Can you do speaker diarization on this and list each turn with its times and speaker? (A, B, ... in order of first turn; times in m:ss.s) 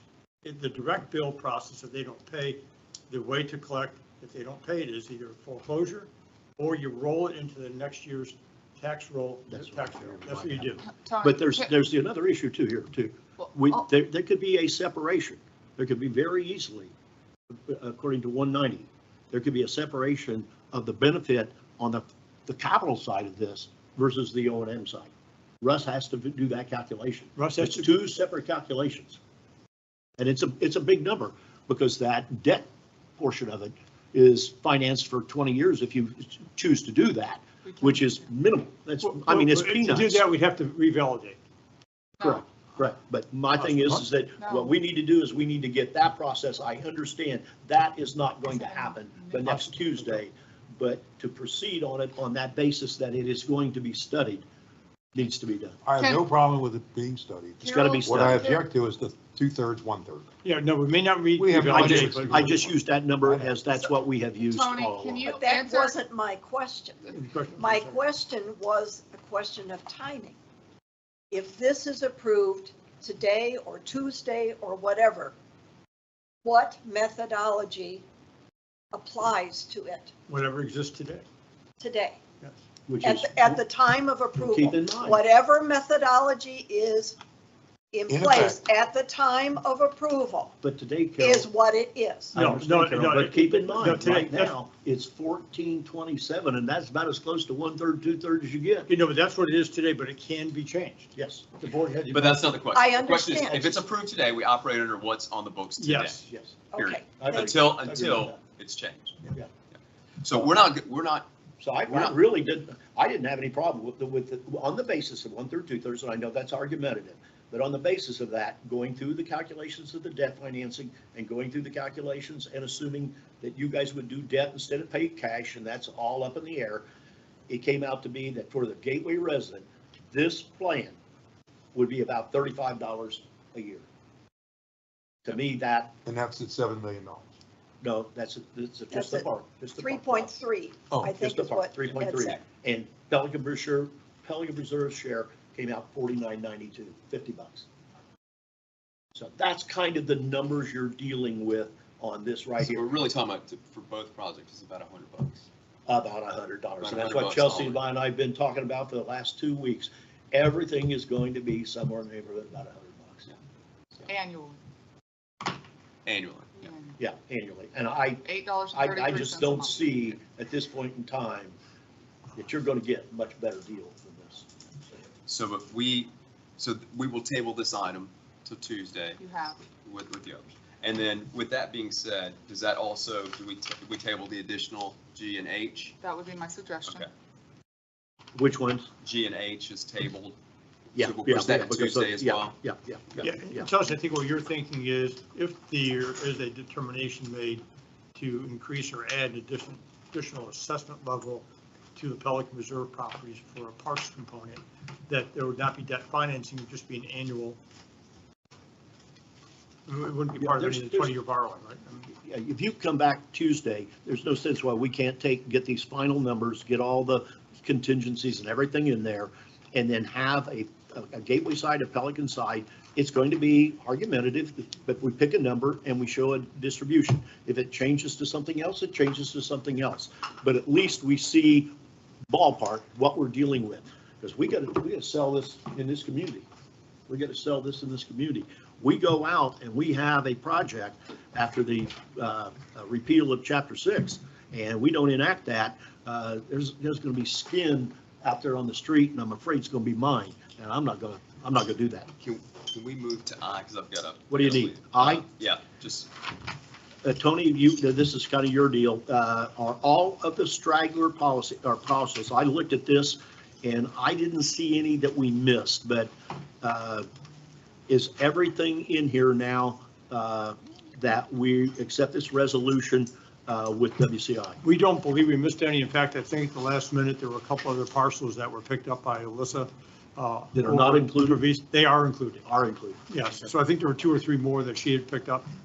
0:00.4-0:10.8 A
0:09.5-0:16.9 B
0:10.9-0:11.7 C
0:13.4-0:13.9 C
0:17.5-0:29.2 B
0:27.4-0:28.0 A
0:30.2-0:32.7 B
0:33.2-0:40.2 B
0:37.6-0:38.3 C
0:39.0-0:41.4 A
0:42.2-0:42.4 C
0:42.2-0:54.4 B
0:43.6-0:44.0 A
0:44.4-0:44.7 C
0:48.5-0:49.7 C
0:49.4-0:50.2 A
0:55.2-0:55.8 B
0:55.8-1:00.3 D
0:56.0-0:56.2 C
0:57.6-0:58.7 C
0:57.6-0:58.5 B
1:00.4-1:02.6 A
1:01.4-1:03.6 D
1:01.7-1:05.3 B
1:03.8-1:06.0 C
1:05.2-1:10.4 E
1:07.1-1:08.0 A
1:11.3-1:15.4 E
1:16.4-1:18.0 E
1:18.9-1:20.1 E
1:20.3-1:21.3 A
1:21.8-1:22.2 E
1:22.9-1:23.6 B
1:23.0-1:27.2 E
1:24.4-1:25.2 B
1:27.9-1:30.5 E
1:28.1-1:28.6 D
1:30.6-1:31.5 B
1:31.2-1:32.4 E
1:32.3-1:34.6 A
1:32.3-1:38.9 B
1:38.9-1:42.5 A
1:41.2-1:41.5 B
1:42.1-1:49.2 F
1:42.7-1:43.8 E
1:45.8-1:46.3 A
1:46.3-1:46.6 B
1:46.7-1:47.6 E
1:47.2-1:48.4 B
1:50.2-1:51.3 F
1:51.6-2:06.9 B
1:51.8-1:52.2 F
2:07.5-2:11.0 B
2:11.7-2:13.9 B
2:15.2-2:15.9 B
2:16.0-2:17.3 D
2:17.8-2:20.4 B
2:18.9-2:19.3 E
2:19.8-2:22.4 E
2:21.1-2:27.7 B
2:29.2-2:32.9 B
2:32.6-2:35.5 F
2:35.9-2:43.3 B
2:36.8-2:37.8 F
2:44.1-2:44.6 C
2:46.1-2:46.7 F
2:46.6-2:47.0 C
2:47.0-2:51.6 B
2:48.2-2:50.2 C
2:52.4-2:54.9 B
2:55.3-3:06.0 F
2:59.2-2:59.6 C
3:06.0-3:07.1 C
3:08.4-3:08.9 B
3:09.0-3:10.4 F
3:11.0-3:12.6 F
3:11.0-3:13.8 B
3:13.2-3:17.6 A
3:18.2-3:27.6 A
3:29.9-3:32.1 A
3:30.4-3:31.2 B
3:32.1-3:51.7 B
3:52.3-3:56.5 B
3:57.1-4:12.1 B
4:12.2-4:16.1 F
4:14.3-4:15.3 B
4:17.0-4:27.1 B
4:27.9-4:34.6 B
4:34.6-4:42.4 A
4:40.5-4:41.4 B
4:42.4-4:43.5 B
4:43.1-4:45.5 A